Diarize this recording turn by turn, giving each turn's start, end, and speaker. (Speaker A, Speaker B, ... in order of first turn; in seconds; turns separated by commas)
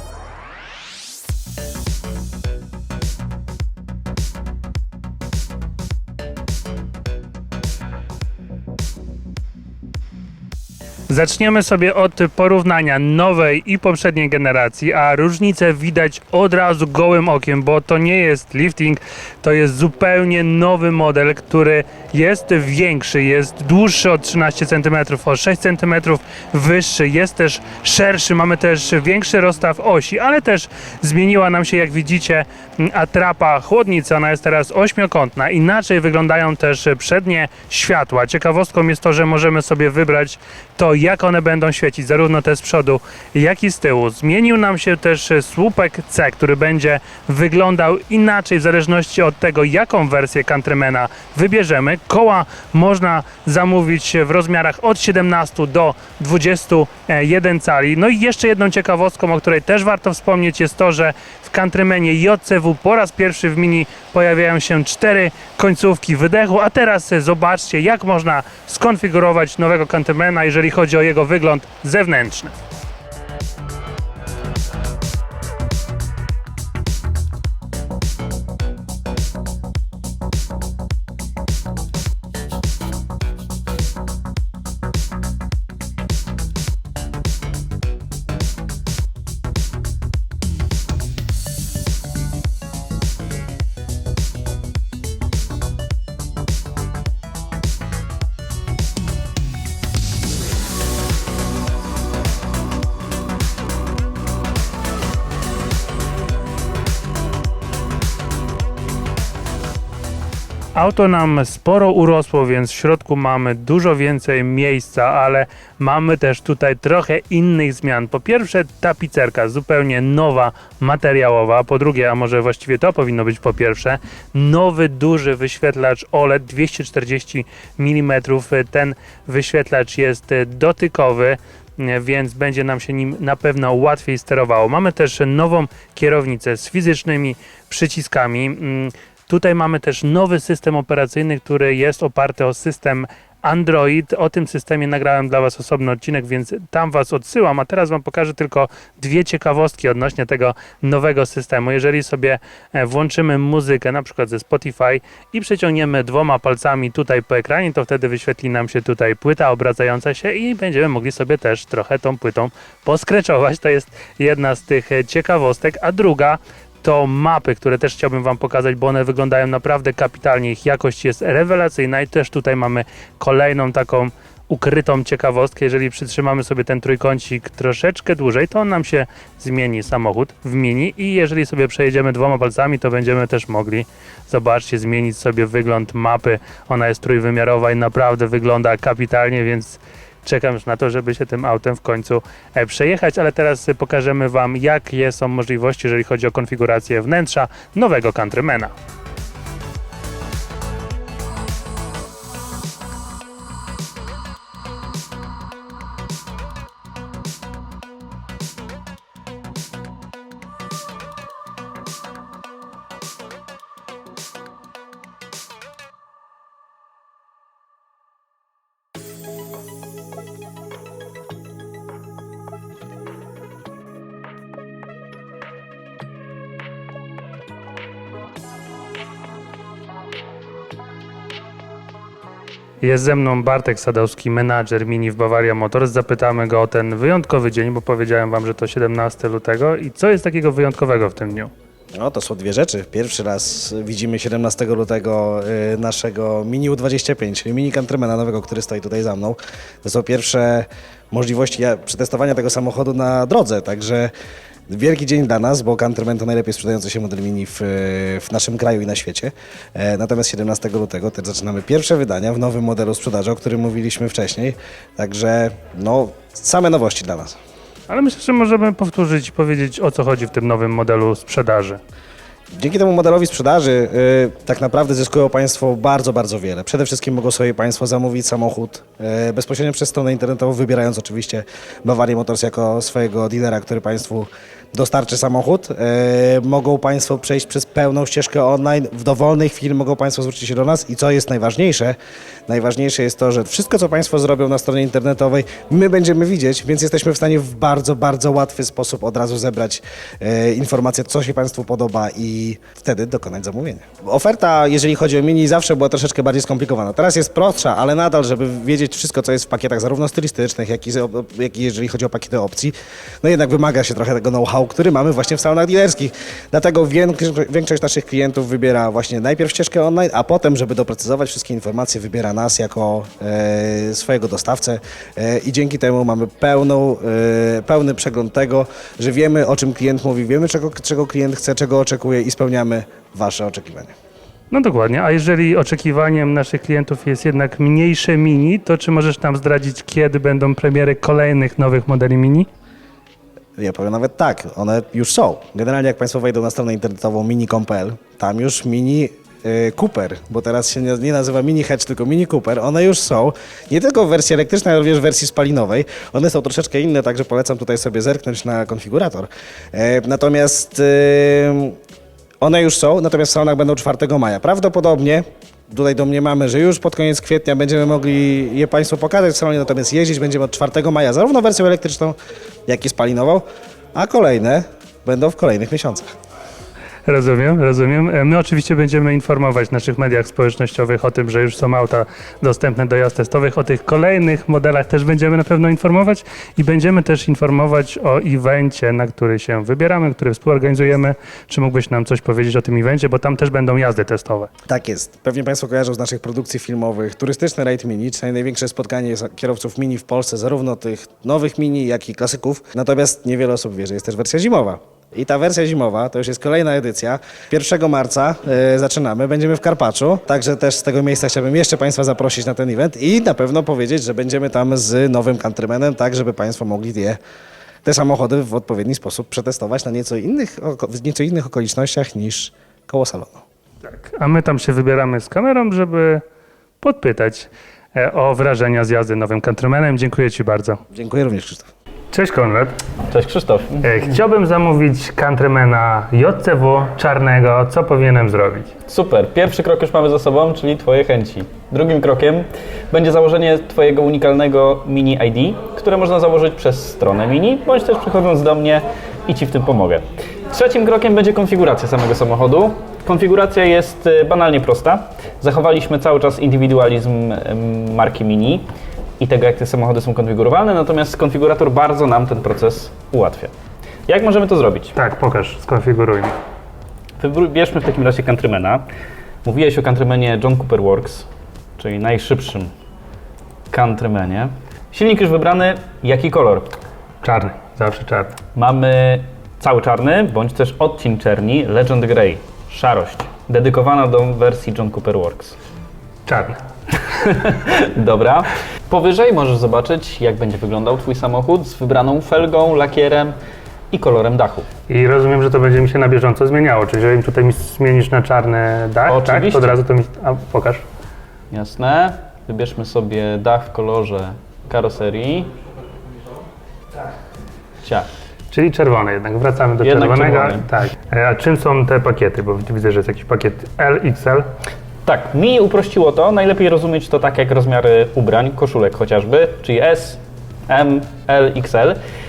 Speaker A: 11.1-72.6, Speaker A: 110.8-198.7, Speaker A: 232.8-241.5, Speaker B: 241.9-254.1, Speaker B: 254.7-267.4, Speaker A: 267.9-271.8, Speaker B: 272.5-292.0, Speaker B: 292.5-333.9, Speaker A: 334.5-342.5, Speaker B: 343.6-361.8, Speaker B: 362.4-372.2, Speaker B: 372.7-376.1, Speaker A: 377.1-394.5, Speaker B: 394.7-417.2, Speaker B: 417.9-423.4, Speaker A: 423.9-426.2, Speaker A: 426.8-430.8, Speaker B: 430.9-431.7, Speaker A: 432.1-432.8, Speaker C: 433.1-433.8, Speaker A: 433.8-438.7, Speaker C: 438.9-458.7, Speaker C: 459.2-463.5, Speaker C: 464.1-464.9, Speaker A: 464.9-466.4, Speaker C: 467.2-468.9, Speaker C: 469.4-471.3, Speaker C: 471.8-472.7, Speaker C: 473.7-476.7, Speaker A: 477.2-478.4, Speaker C: 478.6-485.6, Speaker A: 486.3-486.6, Speaker C: 487.2-493.4, Speaker C: 493.9-494.7, Speaker A: 494.9-500.8, Speaker C: 499.1-499.8, Speaker C: 501.5-505.5, Speaker A: 508.5-514.5, Speaker C: 509.8-510.6, Speaker C: 515.0-522.0